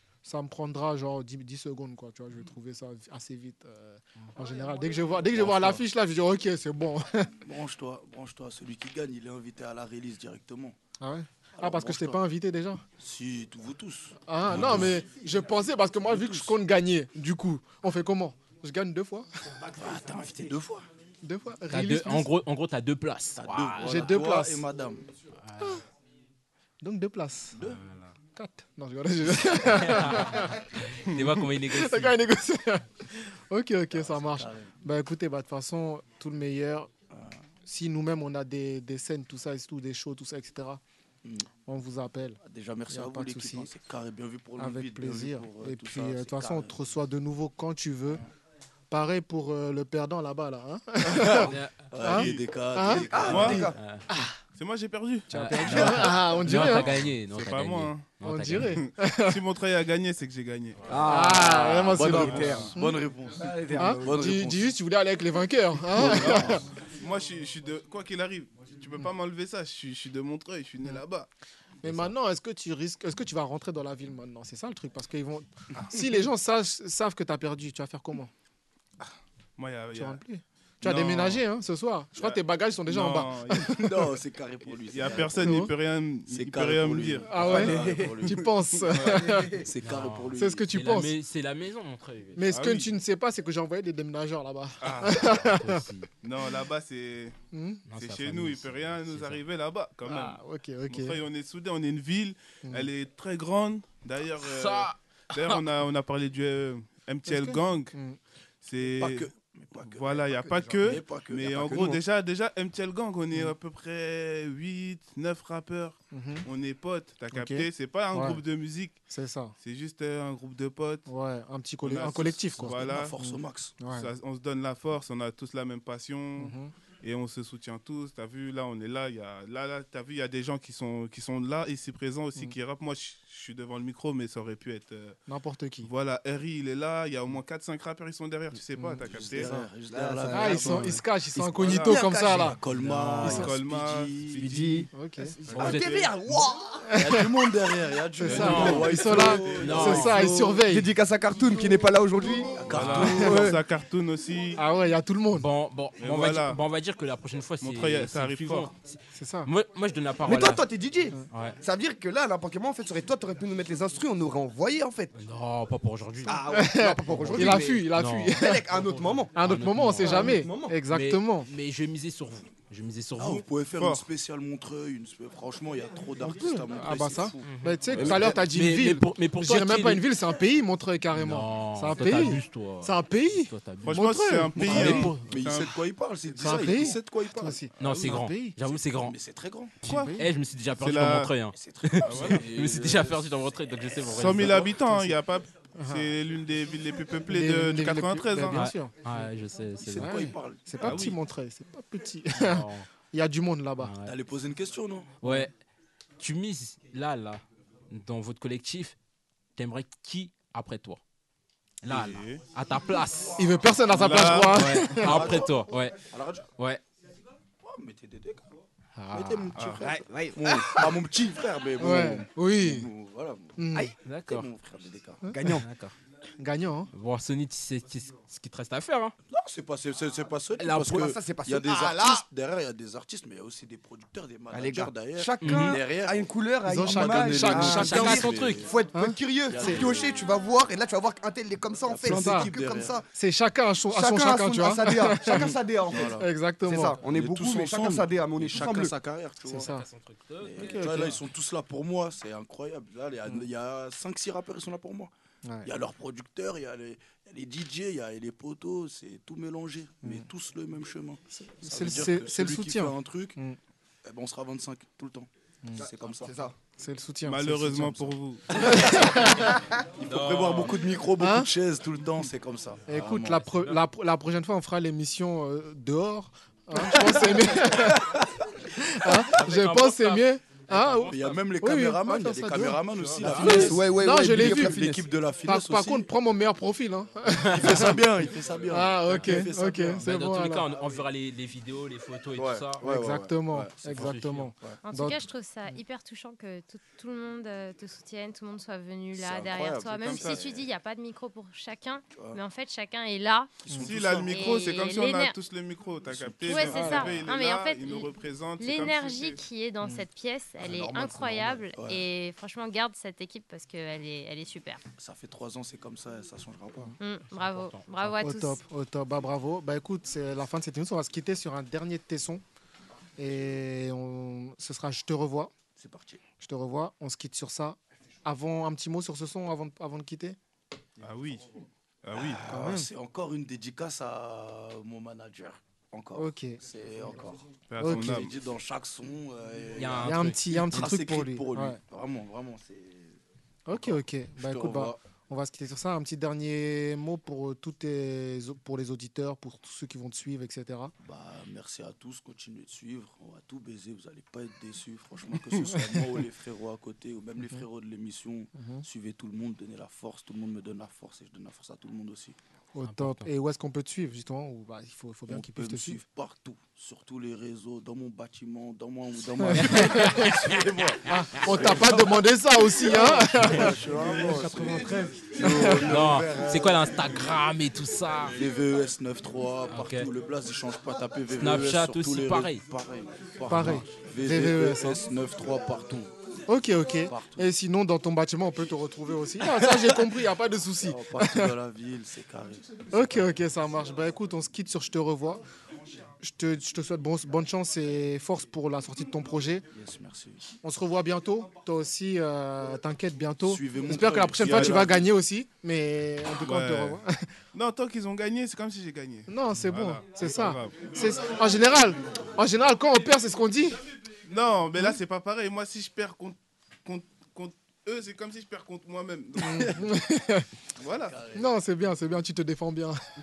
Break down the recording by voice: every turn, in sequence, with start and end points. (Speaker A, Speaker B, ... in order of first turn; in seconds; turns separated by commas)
Speaker A: 0.2-7.3, Speaker B: 5.3-5.8, Speaker B: 7.4-10.8, Speaker A: 11.0-12.8, Speaker B: 11.6-12.2, Speaker B: 13.0-15.0, Speaker A: 14.3-19.3, Speaker B: 16.1-16.5, Speaker B: 19.8-20.9, Speaker A: 21.2-22.3, Speaker C: 21.7-24.2, Speaker B: 23.4-25.1, Speaker A: 23.8-24.6, Speaker C: 25.5-25.8, Speaker A: 26.8-27.6, Speaker B: 27.6-27.8, Speaker C: 27.7-28.1, Speaker A: 28.4-30.5, Speaker C: 29.8-32.2, Speaker A: 31.2-36.9, Speaker B: 33.9-34.8, Speaker A: 37.7-40.8, Speaker A: 41.7-43.7, Speaker B: 42.4-46.7, Speaker A: 44.6-48.2, Speaker A: 48.9-53.5, Speaker B: 51.1-53.7, Speaker C: 51.4-51.9, Speaker D: 52.1-52.5, Speaker E: 53.1-53.8, Speaker F: 53.2-53.6, Speaker D: 53.2-53.7, Speaker C: 53.7-54.0, Speaker A: 54.1-54.4, Speaker D: 54.5-56.1, Speaker A: 55.3-57.0, Speaker C: 55.3-58.8, Speaker D: 56.6-61.0, Speaker A: 58.2-59.4, Speaker F: 60.9-62.7, Speaker A: 61.0-63.0, Speaker D: 62.0-62.7, Speaker B: 62.1-64.7, Speaker F: 63.3-64.4, Speaker A: 63.8-66.6, Speaker B: 65.9-66.6, Speaker D: 66.0-71.3, Speaker A: 71.8-78.3, Speaker D: 79.6-80.2, Speaker A: 79.9-83.9, Speaker D: 80.8-81.5, Speaker D: 82.2-83.8, Speaker B: 83.8-85.7, Speaker D: 84.9-89.3, Speaker A: 85.4-85.7, Speaker B: 86.3-88.5, Speaker A: 87.3-89.6, Speaker F: 87.7-88.2, Speaker B: 89.6-90.7, Speaker C: 89.8-92.4, Speaker A: 90.4-91.2, Speaker A: 92.4-95.8, Speaker D: 92.4-92.9, Speaker D: 94.8-95.3, Speaker C: 95.3-96.1, Speaker D: 96.2-97.4, Speaker A: 97.5-97.9, Speaker C: 97.9-99.4, Speaker D: 98.0-108.0, Speaker A: 100.0-101.2, Speaker A: 102.6-102.9, Speaker C: 104.4-105.0, Speaker A: 107.3-108.2, Speaker D: 108.6-119.0, Speaker B: 109.0-110.3, Speaker B: 110.8-112.0, Speaker F: 111.3-112.0, Speaker A: 116.1-116.5, Speaker A: 117.3-118.4, Speaker A: 119.1-119.5, Speaker D: 119.6-121.1, Speaker A: 121.1-124.1, Speaker D: 121.8-123.2, Speaker B: 122.2-123.8, Speaker D: 123.9-135.2, Speaker A: 126.4-126.7, Speaker A: 135.3-135.9, Speaker D: 135.8-139.5, Speaker A: 138.8-139.0, Speaker B: 139.1-144.6, Speaker F: 139.9-141.0, Speaker A: 140.3-142.6, Speaker F: 141.6-143.4, Speaker E: 141.9-142.4, Speaker A: 143.2-143.5, Speaker D: 143.3-144.9, Speaker F: 144.4-146.1, Speaker A: 144.9-145.4, Speaker C: 145.5-146.4, Speaker E: 145.6-146.9, Speaker A: 146.9-147.3, Speaker B: 146.9-150.6, Speaker A: 148.2-150.9, Speaker C: 148.2-150.3, Speaker F: 148.6-149.4, Speaker D: 149.2-150.2, Speaker F: 150.6-152.5, Speaker E: 151.6-152.5, Speaker B: 152.6-153.5, Speaker D: 152.6-154.6, Speaker C: 152.8-153.1, Speaker A: 153.0-153.3, Speaker F: 153.1-153.6, Speaker A: 154.6-155.5, Speaker C: 155.3-160.6, Speaker D: 156.0-156.6, Speaker D: 157.6-158.7, Speaker A: 159.2-159.5, Speaker E: 160.3-165.1, Speaker F: 160.3-161.1, Speaker C: 161.3-161.6, Speaker C: 165.1-166.4, Speaker E: 166.3-167.6, Speaker F: 166.3-167.9, Speaker A: 166.5-168.7, Speaker C: 167.3-173.4, Speaker E: 168.4-169.3, Speaker F: 168.9-169.3, Speaker A: 169.3-171.5, Speaker F: 170.0-170.5, Speaker E: 170.2-170.8, Speaker B: 173.2-178.4, Speaker D: 173.8-174.1, Speaker A: 176.2-185.2, Speaker C: 177.4-180.1, Speaker F: 178.1-178.3, Speaker C: 181.1-184.1, Speaker D: 183.8-185.8, Speaker B: 184.6-187.6, Speaker C: 184.6-185.4, Speaker D: 186.4-186.8, Speaker A: 186.4-188.6, Speaker C: 187.8-189.2, Speaker D: 187.8-188.2, Speaker B: 188.7-189.8, Speaker C: 189.8-195.0, Speaker D: 189.8-190.1, Speaker A: 189.8-190.3, Speaker D: 190.8-191.3, Speaker B: 191.5-193.3, Speaker D: 192.0-192.4, Speaker B: 194.0-194.8, Speaker D: 194.1-198.7, Speaker A: 195.8-196.2, Speaker A: 197.3-198.9, Speaker C: 198.4-200.2, Speaker B: 199.8-201.1, Speaker A: 200.0-203.9, Speaker D: 200.8-201.2, Speaker C: 202.4-202.9, Speaker C: 203.8-204.1, Speaker B: 204.1-205.2, Speaker C: 205.2-205.5, Speaker C: 206.2-209.0, Speaker C: 209.6-211.0, Speaker C: 211.8-213.4, Speaker D: 211.9-212.5, Speaker A: 213.4-215.4, Speaker B: 213.9-216.5, Speaker D: 213.9-214.6, Speaker C: 214.0-216.0, Speaker C: 216.6-216.8, Speaker B: 217.6-218.5, Speaker C: 219.0-219.9, Speaker B: 219.1-223.6, Speaker D: 219.6-219.8, Speaker F: 219.8-220.9, Speaker A: 221.8-222.9, Speaker A: 223.6-223.9, Speaker C: 224.0-224.5, Speaker B: 224.3-225.2, Speaker A: 225.2-225.5, Speaker F: 225.3-225.7, Speaker C: 225.5-225.9, Speaker A: 226.4-226.9, Speaker C: 226.9-229.1, Speaker B: 229.3-238.7, Speaker C: 230.6-231.2, Speaker E: 231.0-232.2, Speaker F: 234.5-238.3, Speaker C: 235.4-235.8, Speaker A: 236.7-239.8, Speaker C: 237.7-238.7, Speaker E: 238.6-243.1, Speaker B: 239.5-240.1, Speaker B: 241.9-243.0, Speaker A: 242.1-242.5, Speaker A: 243.1-247.0, Speaker E: 243.9-246.2, Speaker B: 245.2-246.3, Speaker F: 246.7-247.6, Speaker E: 246.7-248.9, Speaker B: 247.0-249.7, Speaker A: 249.5-249.9, Speaker C: 249.7-251.2, Speaker B: 250.4-255.1, Speaker A: 250.6-251.2, Speaker A: 255.4-255.7, Speaker B: 255.7-263.4, Speaker A: 261.3-263.6, Speaker B: 264.0-266.4, Speaker E: 265.8-266.6, Speaker A: 266.8-269.6, Speaker D: 267.2-268.6, Speaker B: 268.7-269.1, Speaker B: 270.0-273.6, Speaker C: 270.0-270.9, Speaker A: 271.2-271.5, Speaker A: 272.9-278.1, Speaker C: 273.0-273.8, Speaker B: 276.8-278.0, Speaker A: 278.7-284.9, Speaker C: 279.3-281.5, Speaker B: 281.1-286.1, Speaker C: 283.2-283.8, Speaker E: 283.5-285.0, Speaker F: 283.5-284.5, Speaker A: 285.5-288.0, Speaker B: 287.6-290.0, Speaker A: 288.7-290.7, Speaker C: 289.9-293.0, Speaker B: 292.4-294.8, Speaker A: 292.8-295.2, Speaker C: 293.9-294.5, Speaker G: 294.8-303.5, Speaker B: 299.2-300.7, Speaker D: 300.0-300.5, Speaker B: 303.6-304.9, Speaker D: 303.8-309.4, Speaker G: 304.3-305.4, Speaker B: 306.1-307.2, Speaker G: 306.5-314.8, Speaker A: 306.7-307.2, Speaker B: 310.6-312.0, Speaker B: 315.0-316.9, Speaker G: 317.0-318.6, Speaker C: 317.3-318.3, Speaker A: 318.2-322.4, Speaker A: 323.2-325.5, Speaker B: 325.8-326.2, Speaker A: 326.4-330.4, Speaker D: 331.0-331.5, Speaker D: 332.0-332.4, Speaker B: 332.2-343.2, Speaker A: 332.5-332.9, Speaker A: 336.2-336.6, Speaker D: 337.7-338.3, Speaker A: 337.8-338.3, Speaker C: 339.8-340.8, Speaker A: 340.0-341.8, Speaker A: 343.7-350.9, Speaker B: 343.7-345.0, Speaker B: 351.0-362.4, Speaker A: 355.7-356.0, Speaker A: 358.6-358.9, Speaker A: 362.8-366.0, Speaker C: 362.8-363.3, Speaker B: 365.3-376.9, Speaker A: 369.5-370.3, Speaker C: 369.5-370.6, Speaker A: 371.1-373.8, Speaker C: 373.4-373.7, Speaker A: 375.4-376.1, Speaker C: 375.7-378.4, Speaker B: 378.3-386.1, Speaker C: 379.7-380.1, Speaker C: 381.3-382.6, Speaker A: 383.5-385.0, Speaker C: 383.6-383.9, Speaker A: 386.5-391.5, Speaker B: 387.1-387.5, Speaker B: 389.6-390.1, Speaker B: 390.8-393.3, Speaker A: 392.9-395.4, Speaker A: 396.2-399.6, Speaker B: 399.7-400.4, Speaker A: 400.6-407.3, Speaker B: 403.4-405.1, Speaker D: 406.4-407.0, Speaker D: 407.5-410.9, Speaker A: 409.3-413.8, Speaker D: 414.3-419.9, Speaker A: 419.4-420.5, Speaker D: 420.8-421.1, Speaker B: 420.9-421.5, Speaker A: 421.4-423.0